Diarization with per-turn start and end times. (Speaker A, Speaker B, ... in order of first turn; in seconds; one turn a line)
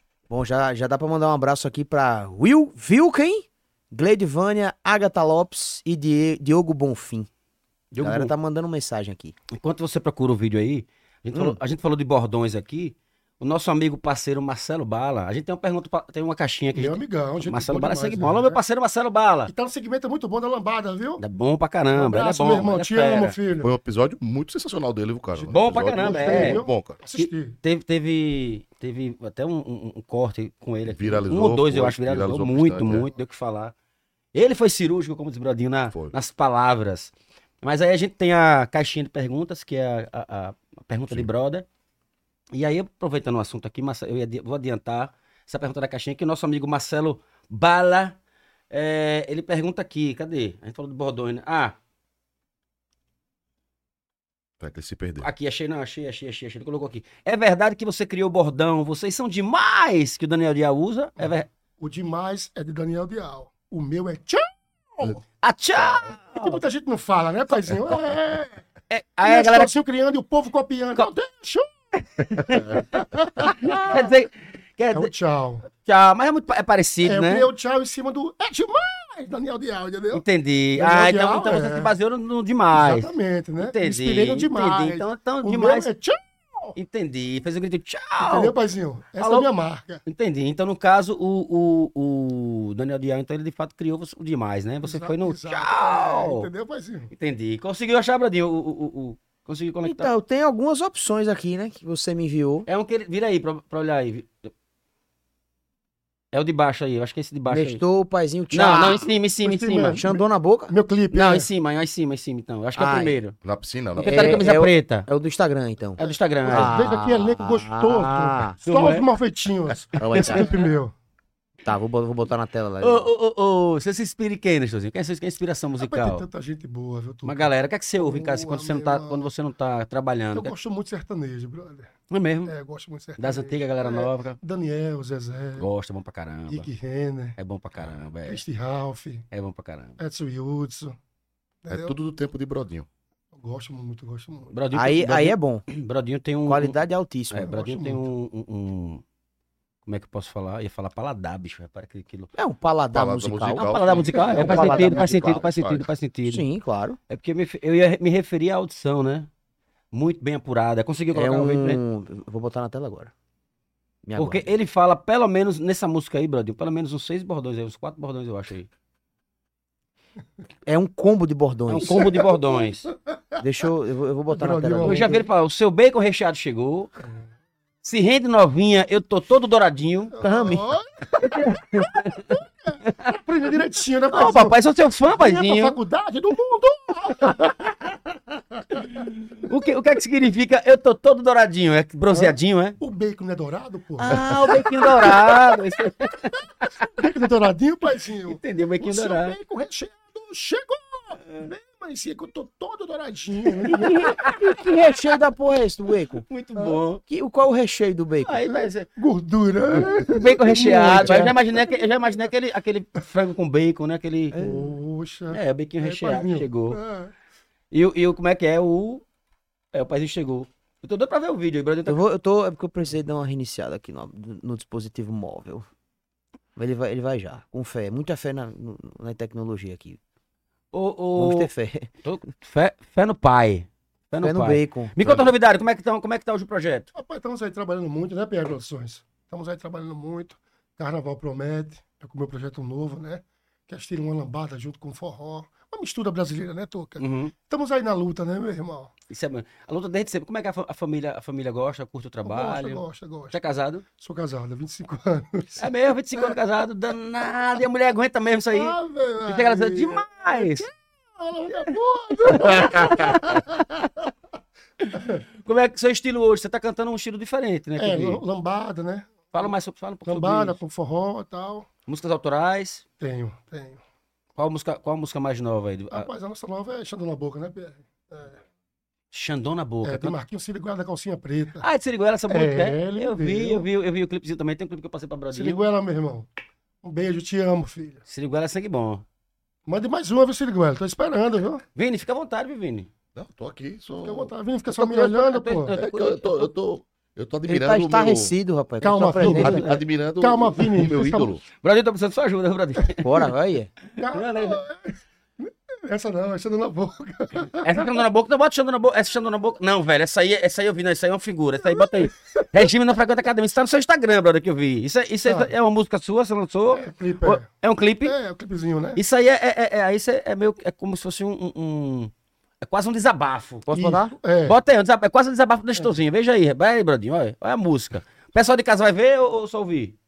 Speaker A: 0.3-7.3
Speaker B: 7.9-8.3
Speaker A: 8.0-9.3
Speaker B: 9.5-19.5
Speaker C: 16.7-18.6
Speaker C: 19.5-21.2
Speaker B: 21.2-23.4
Speaker C: 21.9-23.7
Speaker D: 23.6-27.0
Speaker C: 25.3-27.6
Speaker B: 25.5-26.6
Speaker B: 27.1-33.7
Speaker D: 30.9-33.1
Speaker B: 34.3-37.1
Speaker B: 37.6-41.7
Speaker B: 42.5-48.2
Speaker B: 48.7-51.8
Speaker D: 54.6-55.3
Speaker B: 55.2-61.5
Speaker C: 61.8-65.2
Speaker B: 65.4-66.6
Speaker C: 66.4-68.7
Speaker B: 68.9-69.7
Speaker C: 69.2-74.1
Speaker B: 72.3-75.1
Speaker C: 74.9-75.7
Speaker B: 75.8-77.5
Speaker C: 77.0-80.2
Speaker B: 80.1-85.9
Speaker C: 80.8-81.9
Speaker C: 82.7-86.8
Speaker B: 86.8-88.5
Speaker C: 88.2-90.0
Speaker B: 89.2-89.5
Speaker B: 90.1-96.5
Speaker C: 94.8-97.1
Speaker B: 97.1-100.1
Speaker A: 99.8-102.7
Speaker B: 102.7-104.5
Speaker B: 106.3-107.8
Speaker A: 107.5-109.1
Speaker B: 108.5-110.0
Speaker C: 109.4-111.5
Speaker A: 109.9-110.7
Speaker B: 111.1-113.3
Speaker A: 112.8-113.2
Speaker D: 113.4-114.4
Speaker A: 114.0-118.6
Speaker B: 114.0-115.1
Speaker B: 116.0-116.8
Speaker C: 116.0-120.9
Speaker B: 118.7-119.0
Speaker A: 120.0-120.5
Speaker B: 120.2-120.7
Speaker A: 121.7-123.1
Speaker B: 122.8-126.2
Speaker C: 125.8-129.3
Speaker B: 127.3-130.5
Speaker C: 130.3-131.9
Speaker B: 132.1-132.5
Speaker C: 132.5-135.7
Speaker B: 133.2-134.4
Speaker B: 135.6-136.7
Speaker C: 136.5-137.4
Speaker B: 137.4-138.4
Speaker C: 138.3-139.2
Speaker B: 139.3-140.0
Speaker C: 140.0-141.0
Speaker C: 141.6-142.0
Speaker D: 141.7-142.9
Speaker C: 143.3-144.5
Speaker B: 144.5-146.8
Speaker A: 144.7-145.7
Speaker A: 146.5-147.5
Speaker B: 147.3-149.0
Speaker C: 147.5-148.1
Speaker B: 149.9-152.3
Speaker A: 152.3-155.5
Speaker D: 152.9-155.9
Speaker B: 153.5-156.5
Speaker A: 156.3-157.0
Speaker B: 157.1-159.3
Speaker B: 159.9-161.8
Speaker A: 161.1-163.1
Speaker A: 164.0-164.5
Speaker B: 164.2-168.7
Speaker A: 170.7-172.1
Speaker B: 171.7-172.9
Speaker C: 172.0-172.7
Speaker A: 173.4-175.2
Speaker C: 174.3-175.2
Speaker B: 174.8-176.9
Speaker B: 177.8-180.2
Speaker C: 180.2-184.6
Speaker A: 180.2-180.6
Speaker B: 181.2-183.2
Speaker B: 184.1-185.8
Speaker C: 185.1-188.0
Speaker C: 188.5-189.0
Speaker B: 188.8-192.8
Speaker C: 192.1-195.6
Speaker B: 194.1-196.7
Speaker C: 196.8-204.3
Speaker B: 198.3-199.3
Speaker B: 203.7-204.7
Speaker A: 204.1-206.3
Speaker B: 206.3-207.0
Speaker A: 207.1-208.4
Speaker B: 208.2-208.9
Speaker C: 208.5-211.4
Speaker B: 209.9-214.4
Speaker A: 210.5-211.3
Speaker A: 214.3-214.7
Speaker C: 214.4-217.1
Speaker B: 215.3-216.8
Speaker B: 217.7-219.0
Speaker B: 219.7-222.0
Speaker A: 221.9-225.7
Speaker A: 226.6-230.0
Speaker B: 230.7-231.5
Speaker A: 231.2-231.9
Speaker B: 232.0-236.9
Speaker A: 234.2-235.3
Speaker C: 236.9-248.9
Speaker B: 247.0-247.3
Speaker B: 249.1-253.8
Speaker C: 252.2-253.4
Speaker C: 254.0-256.4
Speaker B: 255.6-260.7
Speaker C: 258.5-264.0
Speaker B: 262.2-263.9
Speaker B: 264.8-268.2
Speaker C: 264.9-265.2
Speaker C: 267.8-269.5
Speaker B: 269.3-270.6
Speaker C: 270.1-271.7
Speaker B: 271.9-272.8
Speaker C: 273.0-273.8
Speaker B: 274.4-276.1
Speaker C: 275.9-278.4
Speaker B: 279.1-280.1
Speaker C: 279.8-281.7
Speaker B: 281.6-285.6
Speaker C: 282.3-283.7
Speaker C: 285.3-286.3
Speaker C: 286.8-288.0
Speaker B: 288.1-289.0
Speaker C: 289.7-291.6
Speaker B: 291.8-292.9
Speaker D: 293.1-294.3
Speaker C: 294.0-295.7
Speaker B: 294.7-296.5
Speaker D: 295.8-298.3
Speaker A: 297.5-299.8
Speaker C: 298.8-301.4
Speaker D: 299.3-301.4
Speaker B: 301.6-303.1
Speaker A: 303.0-303.7
Speaker C: 304.0-308.0
Speaker B: 304.1-304.6
Speaker B: 307.6-318.1
Speaker C: 311.7-312.5
Speaker C: 315.3-315.5
Speaker C: 316.7-317.5
Speaker C: 318.1-319.0
Speaker B: 319.0-322.1
Speaker B: 322.6-323.7
Speaker A: 323.7-324.1
Speaker C: 323.7-324.6
Speaker B: 324.5-330.0